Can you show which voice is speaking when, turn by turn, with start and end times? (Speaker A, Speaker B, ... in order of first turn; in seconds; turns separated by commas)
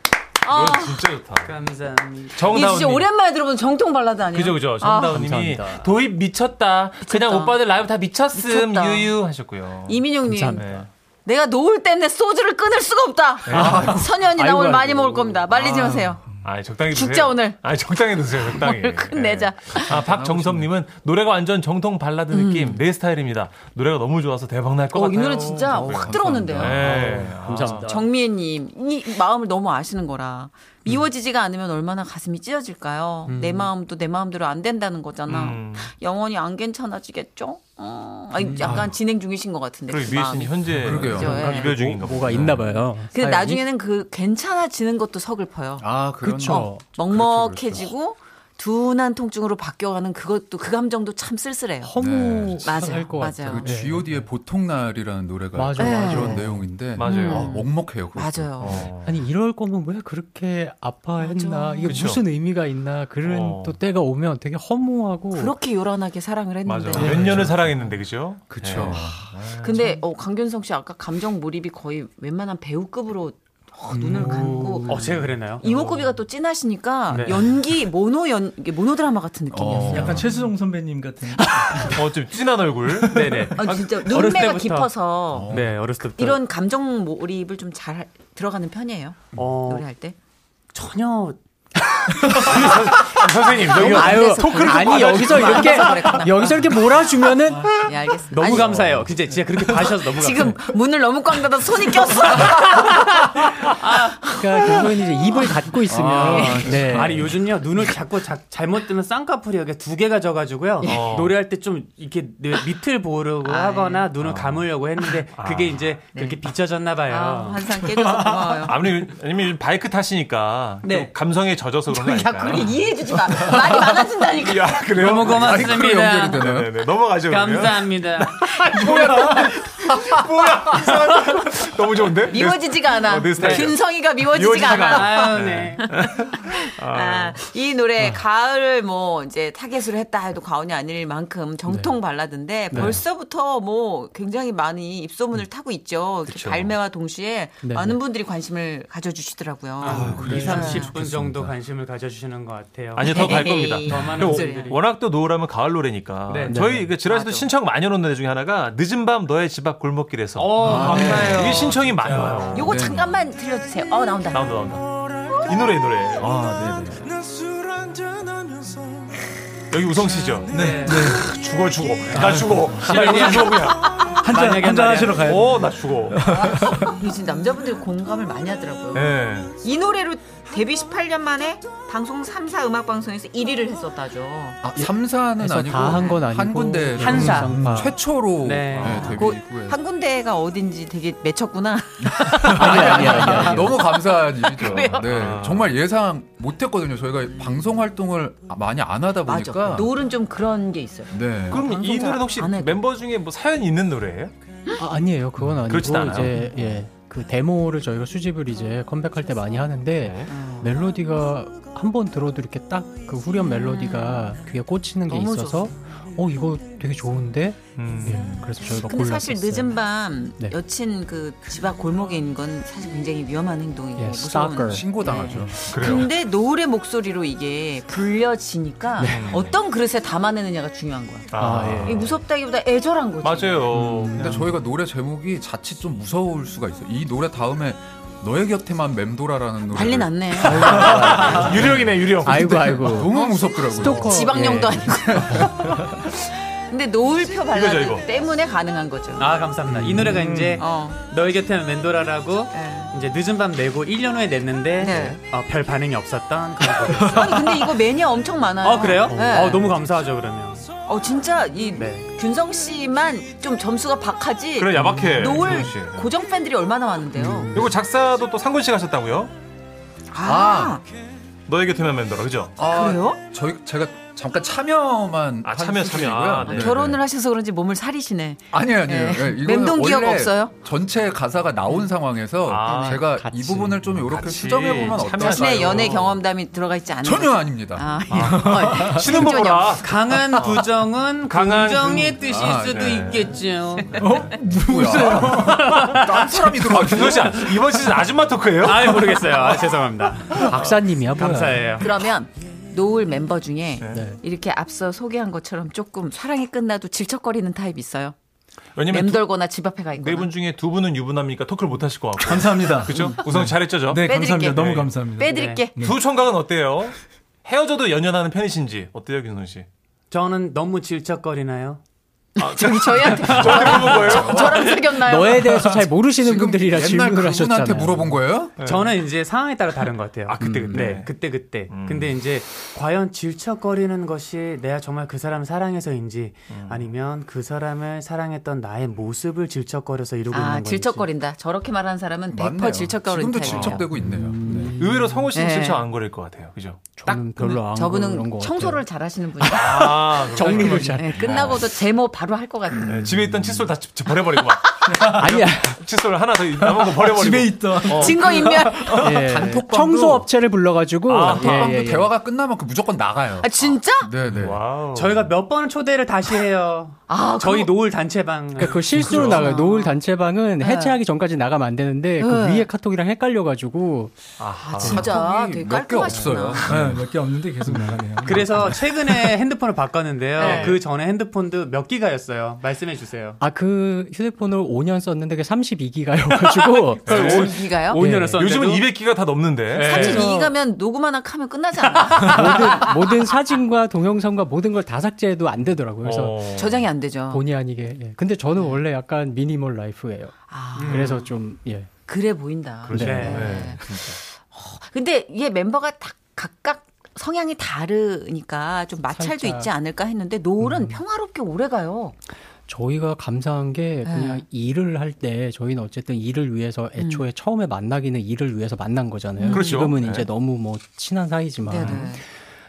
Speaker A: 0.4-1.1, Speaker B: 0.5-1.6, Speaker C: 1.4-2.4, Speaker B: 2.3-3.1, Speaker A: 2.5-5.2, Speaker B: 4.3-10.0, Speaker D: 5.1-5.9, Speaker A: 7.0-7.5, Speaker A: 8.3-9.1, Speaker A: 9.9-16.2, Speaker D: 10.3-10.6, Speaker B: 10.5-10.9, Speaker B: 13.4-13.9, Speaker E: 13.6-14.0, Speaker D: 13.6-15.9, Speaker E: 15.5-16.1, Speaker B: 16.4-27.9, Speaker A: 16.9-17.6, Speaker A: 18.4-20.0, Speaker E: 19.9-20.7, Speaker A: 22.3-22.8, Speaker A: 24.9-27.1, Speaker E: 25.9-26.7, Speaker D: 26.5-28.1, Speaker A: 27.8-41.8, Speaker C: 33.3-33.7, Speaker B: 35.3-35.9, Speaker B: 39.9-42.8, Speaker E: 40.7-41.4, Speaker D: 41.1-43.6, Speaker A: 43.1-52.0, Speaker E: 45.8-47.9, Speaker D: 46.2-46.8, Speaker D: 51.8-54.2, Speaker E: 52.0-58.9, Speaker A: 52.6-53.7, Speaker D: 55.5-56.7, Speaker A: 55.8-58.9, Speaker B: 57.0-57.5, Speaker B: 58.6-59.1, Speaker D: 59.0-65.5, Speaker A: 61.2-62.1, Speaker B: 61.9-62.2, Speaker B: 63.2-63.8, Speaker A: 65.3-67.6, Speaker B: 66.6-70.0, Speaker D: 66.9-67.5, Speaker E: 68.5-69.5, Speaker A: 68.7-69.1, Speaker A: 69.6-80.3, Speaker D: 73.9-75.1, Speaker C: 74.2-75.7, Speaker C: 77.1-77.4, Speaker E: 79.5-80.3, Speaker F: 79.7-82.0, Speaker B: 81.8-83.9, Speaker C: 83.1-84.9, Speaker A: 83.5-85.6, Speaker E: 85.3-85.7, Speaker C: 85.5-86.4, Speaker A: 86.2-90.1, Speaker C: 89.3-89.9, Speaker C: 90.7-91.4, Speaker D: 92.1-92.5, Speaker B: 92.2-96.5, Speaker C: 92.5-93.1, Speaker A: 93.5-96.7, Speaker D: 93.7-97.8, Speaker A: 97.8-98.9, Speaker C: 98.3-100.6, Speaker B: 98.4-99.0, Speaker A: 99.9-103.5, Speaker C: 103.8-104.2, Speaker A: 104.2-105.0, Speaker D: 104.3-107.3, Speaker E: 105.9-107.4, Speaker A: 106.0-106.8, Speaker C: 106.2-117.7, Speaker B: 110.8-111.3, Speaker A: 113.5-114.1, Speaker B: 114.2-114.7, Speaker B: 115.3-115.8, Speaker A: 116.1-116.4, Speaker A: 117.0-118.9, Speaker B: 118.6-137.4, Speaker A: 120.8-121.1, Speaker A: 121.9-125.0, Speaker C: 125.0-126.4, Speaker E: 125.0-126.8, Speaker C: 127.3-128.4, Speaker A: 128.5-129.5, Speaker E: 128.8-129.5, Speaker A: 132.2-150.9, Speaker C: 133.3-133.7, Speaker C: 134.8-135.8, Speaker D: 141.7-141.9, Speaker D: 142.7-143.0, Speaker B: 146.3-146.7, Speaker D: 147.6-148.0, Speaker C: 149.8-154.8, Speaker B: 149.8-150.6, Speaker E: 149.9-151.5, Speaker D: 150.2-150.7, Speaker B: 152.9-162.8, Speaker A: 153.0-154.7, Speaker C: 156.3-156.8, Speaker D: 156.5-156.9, Speaker A: 157.0-157.5, Speaker C: 160.3-162.6, Speaker E: 160.7-161.7, Speaker A: 162.5-164.6, Speaker E: 162.6-163.1, Speaker B: 164.3-164.8, Speaker B: 165.4-166.3, Speaker E: 166.2-167.1, Speaker B: 169.7-176.5, Speaker F: 170.5-171.2, Speaker C: 170.5-171.2, Speaker F: 172.1-173.4, Speaker C: 172.8-175.4, Speaker F: 174.1-177.0, Speaker A: 176.7-184.6, Speaker B: 178.9-179.5, Speaker E: 184.6-189.8, Speaker D: 184.8-187.9, Speaker A: 185.8-186.2, Speaker C: 187.0-187.8, Speaker C: 188.3-189.0, Speaker B: 188.7-189.2, Speaker A: 188.8-195.1, Speaker E: 192.0-199.9, Speaker D: 192.5-193.8, Speaker B: 194.6-195.7, Speaker A: 197.3-197.6, Speaker A: 199.2-202.8, Speaker E: 201.1-201.6, Speaker B: 201.5-204.3, Speaker D: 204.8-219.7, Speaker B: 205.4-206.7, Speaker B: 210.0-210.3, Speaker A: 210.3-210.8, Speaker A: 213.4-214.3, Speaker A: 215.1-215.7, Speaker B: 217.8-218.5, Speaker A: 218.6-231.3, Speaker D: 224.0-224.9, Speaker E: 224.7-225.7, Speaker B: 225.7-226.1, Speaker D: 229.0-229.3, Speaker B: 229.0-229.6, Speaker B: 231.3-232.2, Speaker D: 231.4-232.0, Speaker A: 231.8-233.8, Speaker B: 233.2-234.5, Speaker D: 233.7-234.5, Speaker E: 234.2-241.8, Speaker A: 239.7-241.5, Speaker B: 240.4-242.9, Speaker D: 240.4-241.6, Speaker D: 242.2-245.5, Speaker E: 242.6-245.6, Speaker A: 243.1-249.3, Speaker B: 247.5-248.1, Speaker C: 249.2-257.7, Speaker D: 249.8-250.1, Speaker F: 249.8-250.5, Speaker A: 250.6-251.0, Speaker A: 252.5-252.9, Speaker A: 254.8-255.2, Speaker F: 256.7-257.3, Speaker A: 257.1-259.7, Speaker C: 258.6-260.7, Speaker D: 259.1-259.5, Speaker A: 260.9-267.7, Speaker C: 261.7-262.1, Speaker B: 264.6-266.1, Speaker D: 267.1-267.7, Speaker B: 267.5-269.3, Speaker A: 270.1-270.8, Speaker E: 270.2-270.8, Speaker B: 271.5-272.5, Speaker E: 272.6-276.9, Speaker A: 272.6-273.2, Speaker B: 275.4-277.0, Speaker A: 276.4-280.5, Speaker E: 278.5-286.1, Speaker B: 282.4-283.1, Speaker A: 282.7-283.0, Speaker D: 283.0-283.8, Speaker B: 284.0-286.2, Speaker A: 285.2-289.8, Speaker E: 287.0-288.0, Speaker B: 288.1-294.3, Speaker F: 288.2-289.1, Speaker C: 289.8-294.0, Speaker E: 292.3-293.1, Speaker F: 294.0-295.8, Speaker E: 294.5-297.6, Speaker B: 295.2-299.5, Speaker C: 298.6-300.5, Speaker D: 300.3-301.8, Speaker C: 301.1-301.9, Speaker A: 301.8-308.1, Speaker D: 303.9-304.2, Speaker B: 308.8-309.2, Speaker A: 308.9-310.3, Speaker B: 310.0-314.9, Speaker F: 312.2-315.9, Speaker A: 313.9-315.7, Speaker C: 315.3-315.6, Speaker B: 315.8-319.6, Speaker C: 320.1-321.8, Speaker A: 322.4-325.8, Speaker B: 322.4-324.8, Speaker E: 323.4-324.6, Speaker D: 325.0-328.2, Speaker E: 326.0-328.6, Speaker B: 328.6-329.0, Speaker C: 328.6-341.1, Speaker B: 330.2-331.1, Speaker E: 330.4-330.8, Speaker B: 331.6-332.2, Speaker B: 336.5-336.9, Speaker A: 340.3-343.9, Speaker E: 342.3-344.7, Speaker B: 343.4-343.8, Speaker D: 343.9-345.2, Speaker B: 344.8-346.8, Speaker A: 345.3-345.9, Speaker D: 347.0-348.8, Speaker A: 347.1-353.1, Speaker B: 349.4-351.7, Speaker D: 349.5-351.4, Speaker E: 352.8-353.7, Speaker B: 352.9-358.9, Speaker A: 354.3-354.7, Speaker F: 354.9-355.4, Speaker D: 355.1-355.8, Speaker F: 356.6-358.7, Speaker A: 357.9-359.2, Speaker D: 358.8-362.1, Speaker E: 359.0-360.3, Speaker B: 361.1-361.8, Speaker E: 361.1-364.6, Speaker A: 363.4-364.1, Speaker B: 364.2-365.3, Speaker C: 364.9-368.8, Speaker A: 367.1-367.7, Speaker D: 368.6-374.2, Speaker B: 368.8-369.5, Speaker A: 369.1-370.0, Speaker A: 370.6-371.0, Speaker A: 372.2-372.7, Speaker B: 374.4-375.1, Speaker D: 374.7-375.1, Speaker E: 374.8-378.1, Speaker A: 374.8-376.7, Speaker F: 376.6-379.2, Speaker C: 378.2-383.4, Speaker A: 380.4-380.8, Speaker B: 380.4-380.8, Speaker D: 383.4-387.4, Speaker C: 386.4-388.9, Speaker B: 387.1-387.7, Speaker A: 387.1-388.0, Speaker D: 387.9-388.4, Speaker B: 388.4-390.3, Speaker C: 389.7-390.5, Speaker A: 389.8-393.2, Speaker D: 392.2-396.4, Speaker B: 396.0-396.9, Speaker A: 396.5-397.4, Speaker D: 397.3-400.3, Speaker A: 400.5-401.2, Speaker C: 400.8-401.1, Speaker D: 400.9-401.9, Speaker A: 402.1-412.1, Speaker B: 402.8-404.2, Speaker D: 402.9-403.4, Speaker C: 402.9-403.7, Speaker D: 409.1-409.7, Speaker D: 410.6-411.0, Speaker D: 412.7-422.2, Speaker A: 414.0-414.4, Speaker A: 417.0-417.2, Speaker A: 419.4-419.8, Speaker B: 419.5-420.3, Speaker A: 421.7-422.2, Speaker B: 421.8-422.0